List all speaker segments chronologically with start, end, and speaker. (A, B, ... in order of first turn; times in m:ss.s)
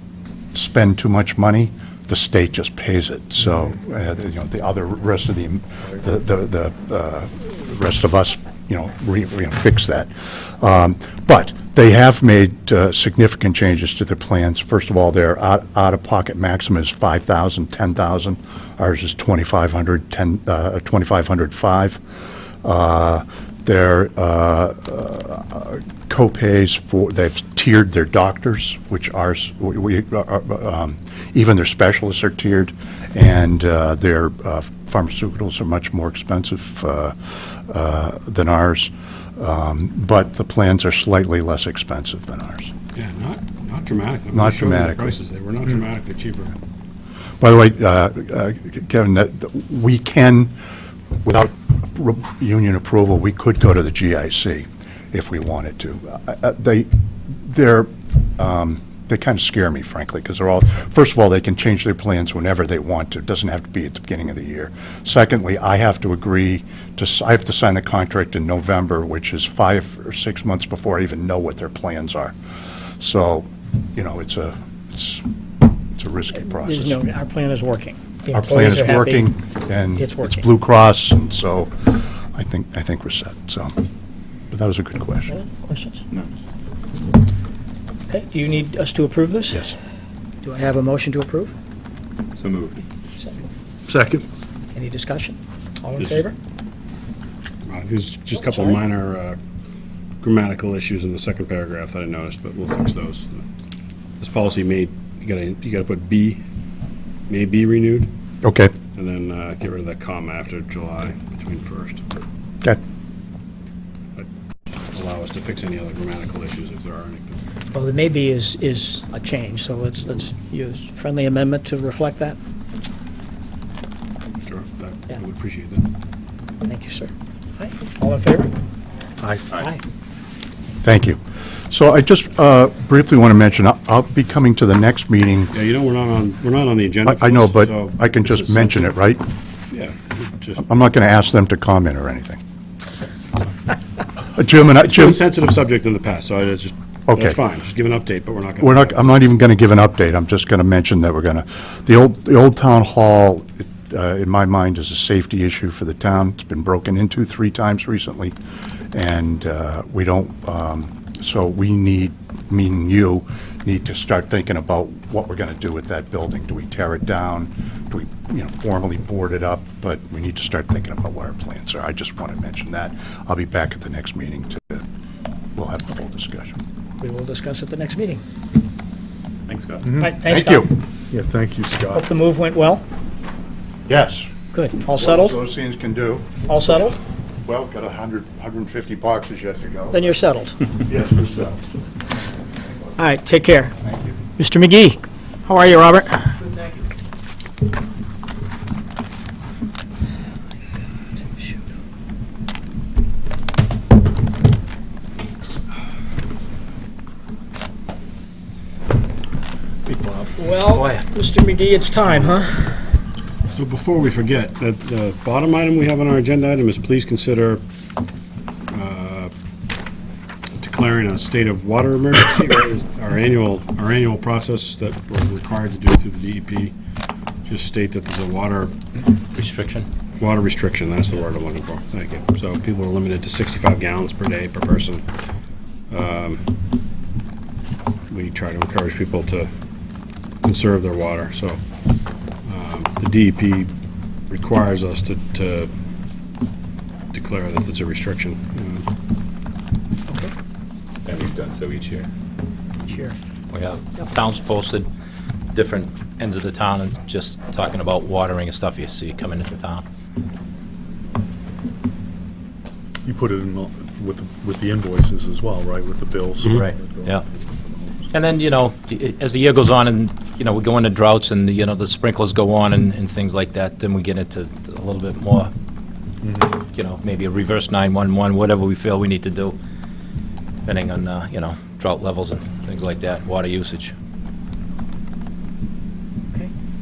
0:00.5-0:42.7 A
0:42.9-0:46.5 B
0:44.3-0:45.2 A
0:47.4-0:50.5 A
0:51.2-1:12.3 A
1:13.0-1:15.2 A
1:15.9-1:17.0 A
1:16.4-1:19.3 C
1:18.3-1:23.7 A
1:20.0-1:20.4 C
1:24.5-1:25.3 A
1:25.3-1:26.0 C
1:28.1-1:29.7 C
1:29.5-1:29.8 A
1:30.4-1:31.5 C
1:32.3-1:32.8 D
1:33.2-1:33.5 C
1:33.9-1:34.2 B
1:34.7-1:36.4 C
1:36.0-1:36.2 B
1:37.6-1:39.4 B
1:40.2-1:43.4 B
1:44.2-1:46.4 B
1:47.3-1:48.1 B
1:48.4-1:48.7 A
1:48.9-1:52.0 B
1:54.9-1:57.4 B
1:57.7-2:02.4 C
2:04.4-2:05.9 B
2:06.6-2:08.5 C
2:09.5-2:09.8 C
2:10.8-2:15.5 A
2:15.5-2:18.9 B
2:17.0-2:19.2 A
2:19.7-2:20.6 B
2:20.6-2:22.4 A
2:24.3-2:25.2 A
2:24.7-2:29.2 B
2:27.1-2:27.4 A
2:28.6-2:38.3 A
2:38.9-2:54.8 A
2:55.6-2:56.6 A
2:57.0-2:58.2 C
2:59.5-2:59.8 D
2:59.8-3:00.1 E
3:00.0-3:00.6 C
3:00.2-3:00.7 A
3:01.1-3:02.1 E
3:01.9-3:02.8 C
3:03.9-3:06.7 A
3:04.5-3:05.4 C
3:06.5-3:07.0 C
3:07.4-3:11.6 A
3:09.9-3:10.6 C
3:13.0-3:13.8 C
3:13.8-3:14.1 A
3:14.4-3:16.5 C
3:30.4-3:32.8 C
3:30.7-3:31.0 F
3:33.5-3:37.6 B
3:38.7-3:39.3 B
3:40.6-3:46.7 B
3:47.4-3:48.8 B
3:49.3-3:49.9 F
3:50.2-3:55.0 B
3:55.9-3:56.4 B
3:58.1-3:59.5 B
4:00.4-4:01.6 B
4:02.4-4:03.7 B
4:04.3-4:05.7 B
4:07.1-4:08.8 B
4:11.0-4:12.1 D
4:12.8-4:13.2 C
4:13.5-4:14.9 F
4:15.5-4:19.8 F
4:23.0-4:28.1 E
4:26.4-4:27.2 F
4:28.1-4:35.5 F
4:36.2-4:36.6 E
4:36.7-4:39.6 F
4:40.6-4:43.9 F